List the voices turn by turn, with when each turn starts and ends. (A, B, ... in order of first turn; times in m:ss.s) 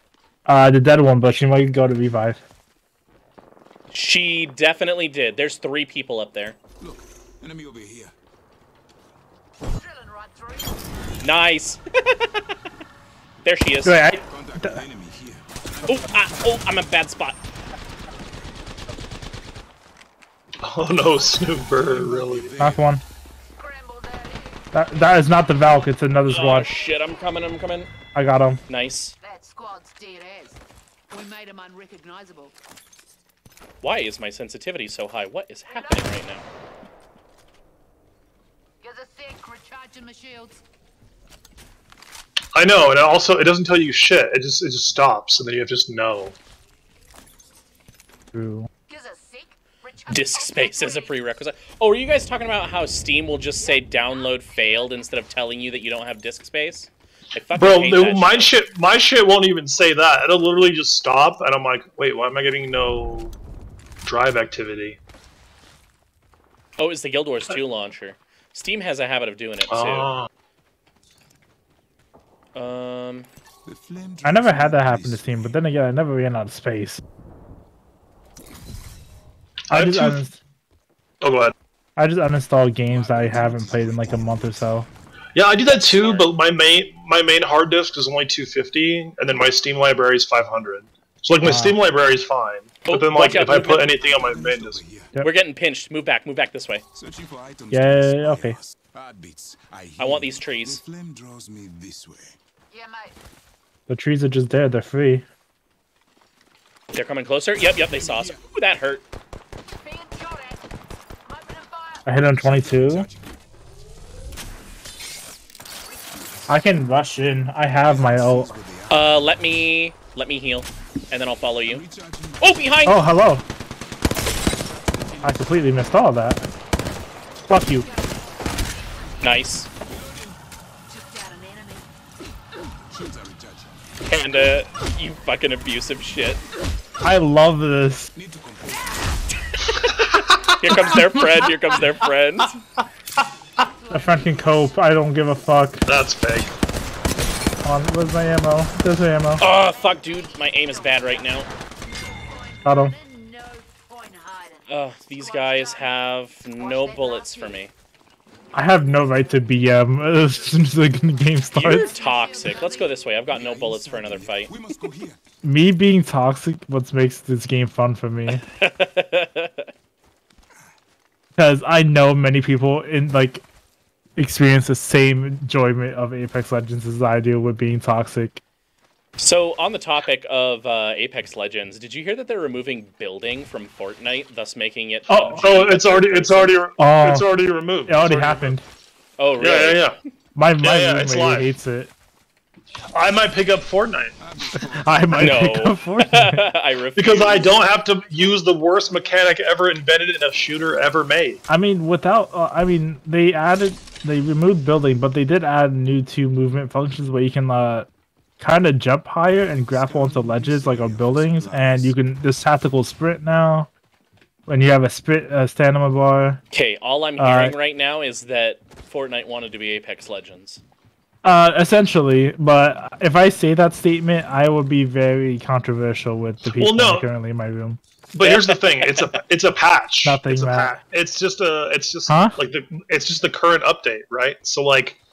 0:00.4-0:02.4 A
0:03.9-0:06.6 B
0:06.8-0:08.1 C
0:09.7-0:10.9 D
0:11.2-0:12.3 B
0:13.4-0:14.1 B
0:13.8-0:14.8 A
0:14.2-0:16.7 C
0:15.8-0:17.4 B
0:20.6-0:22.6 E
0:21.7-0:22.9 C
0:22.6-0:23.0 A
0:23.6-0:24.6 D
0:24.7-0:26.7 A
0:26.3-0:27.9 B
0:28.1-0:28.6 A
0:28.7-0:29.1 B
0:29.2-0:30.6 D
0:31.1-0:32.5 D
0:33.8-0:36.4 B
0:35.7-0:36.3 D
0:38.8-0:40.6 D
0:42.5-0:46.3 E
0:48.3-0:48.7 A
0:48.9-0:51.2 D
0:50.1-0:58.5 B
0:53.6-0:54.7 D
0:57.5-1:03.3 E
1:04.0-1:05.0 E
1:06.8-1:10.1 B
1:09.7-1:10.3 E
1:12.5-1:13.3 B
1:13.6-1:15.6 C
1:14.2-1:17.0 A
1:19.7-1:20.2 E
1:19.7-1:20.4 A
1:21.2-1:21.5 E
1:22.0-1:24.8 A
1:22.8-1:24.9 C
1:25.3-1:34.8 E
1:25.7-1:26.3 B
1:31.4-1:31.8 A
1:32.8-1:33.9 B
1:33.3-1:35.1 C
1:35.2-1:36.8 B
1:36.9-1:42.4 C
1:37.7-1:38.6 A
1:40.0-1:40.8 B
1:42.7-1:43.2 D
1:43.9-1:45.2 A
1:46.9-1:49.0 B
1:47.7-1:48.5 C
1:49.8-1:50.7 D
1:51.2-1:52.0 D
1:52.0-1:53.1 A
1:52.1-1:53.4 C
1:55.9-1:56.6 C
1:56.5-1:58.5 A
1:57.8-1:59.3 C
1:58.9-2:01.8 B
2:01.7-2:02.7 C
2:02.4-2:03.0 B
2:02.8-2:03.4 A
2:04.7-2:06.0 C
2:05.2-2:06.5 A
2:07.5-2:07.9 A
2:07.7-2:08.4 D
2:09.2-2:09.7 B
2:09.9-2:10.4 C
2:10.9-2:11.8 D
2:12.9-2:14.0 C
2:14.1-2:16.4 B
2:17.0-2:18.1 A
2:18.1-2:19.2 C
2:20.6-2:22.5 B
2:23.6-2:25.0 D
2:23.9-2:25.8 A
2:25.8-2:26.5 E
2:27.6-2:29.4 A
2:29.4-2:37.7 D
2:29.4-2:31.5 B
2:32.6-2:33.0 A
2:34.7-2:37.7 B
2:38.5-2:41.9 A
2:41.5-2:43.3 D
2:41.5-2:44.5 B
2:43.3-2:45.2 C
2:45.4-2:48.4 A
2:48.3-2:49.7 B
2:51.4-2:53.4 A
2:54.2-2:58.4 A
2:59.2-3:06.6 B
3:05.1-3:05.4 A
3:05.3-3:08.6 E
3:06.8-3:08.6 A
3:09.2-3:09.9 B
3:09.4-3:10.0 E
3:10.3-3:11.9 A
3:10.6-3:11.5 E
3:12.9-3:14.2 E
3:14.2-3:15.4 C
3:14.7-3:16.4 A
3:15.1-3:17.5 B
3:17.0-3:21.4 E
3:21.5-3:27.9 A
3:28.4-3:33.7 A
3:29.7-3:32.0 C
3:34.5-3:36.4 A
3:36.5-3:40.6 B
3:37.2-3:37.5 A
3:41.2-3:47.8 A
3:46.4-3:47.1 E
3:48.1-3:55.0 E
3:48.2-3:49.1 B
3:50.0-3:50.8 A
3:52.1-3:52.4 A